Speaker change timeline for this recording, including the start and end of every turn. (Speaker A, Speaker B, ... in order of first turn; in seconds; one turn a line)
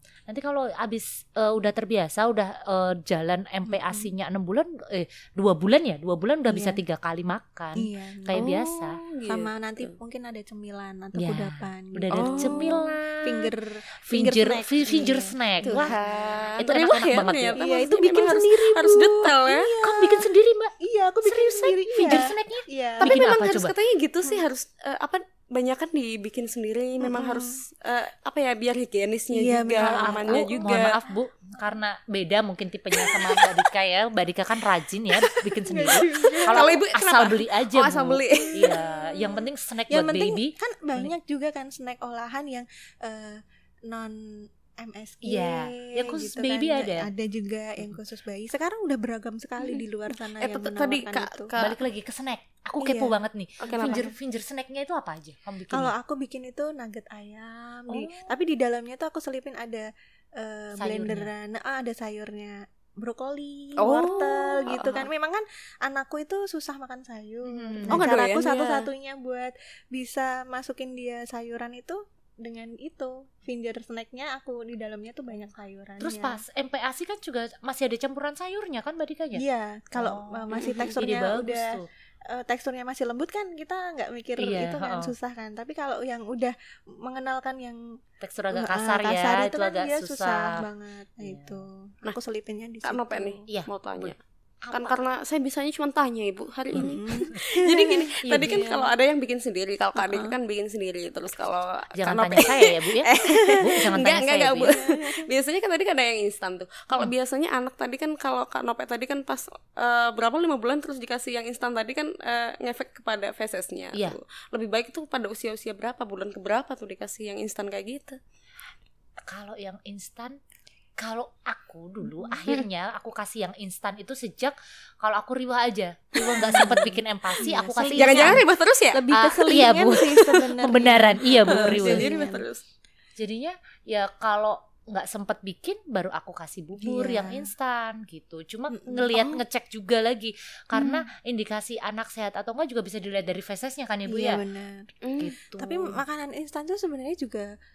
Speaker A: 0.3-9.0
Speaker B: 3.7-4.1
Speaker B: 6.5-6.8
Speaker B: 7.8-8.5
Speaker C: 8.3-9.9
Speaker B: 9.3-16.4
Speaker A: 11.2-13.5
Speaker C: 12.1-12.8
Speaker A: 14.1-15.9
Speaker C: 15.6-19.7
Speaker A: 16.6-17.6
Speaker B: 17.6-23.2
Speaker A: 19.8-20.7
Speaker A: 21.2-23.7
Speaker C: 23.0-31.0
Speaker B: 27.0-27.6
Speaker B: 29.3-31.1
Speaker A: 29.8-41.1
Speaker C: 33.0-33.5
Speaker B: 35.7-36.8
Speaker C: 35.9-38.8
Speaker B: 38.3-51.5
Speaker A: 45.2-47.1
Speaker C: 49.6-49.8
Speaker C: 50.4-51.8
Speaker A: 51.6-55.9
Speaker B: 52.8-54.1
Speaker C: 53.6-54.1
Speaker B: 55.7-76.4
Speaker A: 57.9-58.3
Speaker A: 60.8-61.3
Speaker C: 63.8-65.1
Speaker A: 67.4-68.1
Speaker C: 67.9-68.9
Speaker A: 76.0-79.4
Speaker B: 79.4-88.0
Speaker A: 80.0-81.9
Speaker C: 80.5-81.0
Speaker A: 84.4-85.1
Speaker A: 88.2-90.6
Speaker B: 88.5-93.5
Speaker A: 91.2-91.6
Speaker C: 92.8-94.2
Speaker A: 93.5-95.0
Speaker C: 94.7-118.2
Speaker B: 96.7-98.9
Speaker A: 98.2-98.8
Speaker B: 100.0-100.4
Speaker A: 102.0-104.8
Speaker B: 103.2-103.9
Speaker B: 104.7-105.2
Speaker A: 119.3-120.4
Speaker A: 121.0-128.4
Speaker B: 122.1-122.5
Speaker B: 126.3-132.5
Speaker C: 126.4-126.9
Speaker C: 127.9-129.0
Speaker A: 129.1-132.2
Speaker C: 129.6-130.5
Speaker C: 131.5-132.6
Speaker A: 133.2-144.4
Speaker B: 136.8-137.5
Speaker B: 138.7-139.4
Speaker C: 140.7-141.0
Speaker B: 144.1-144.9
Speaker C: 145.0-145.3
Speaker A: 145.2-146.0
Speaker B: 145.6-147.5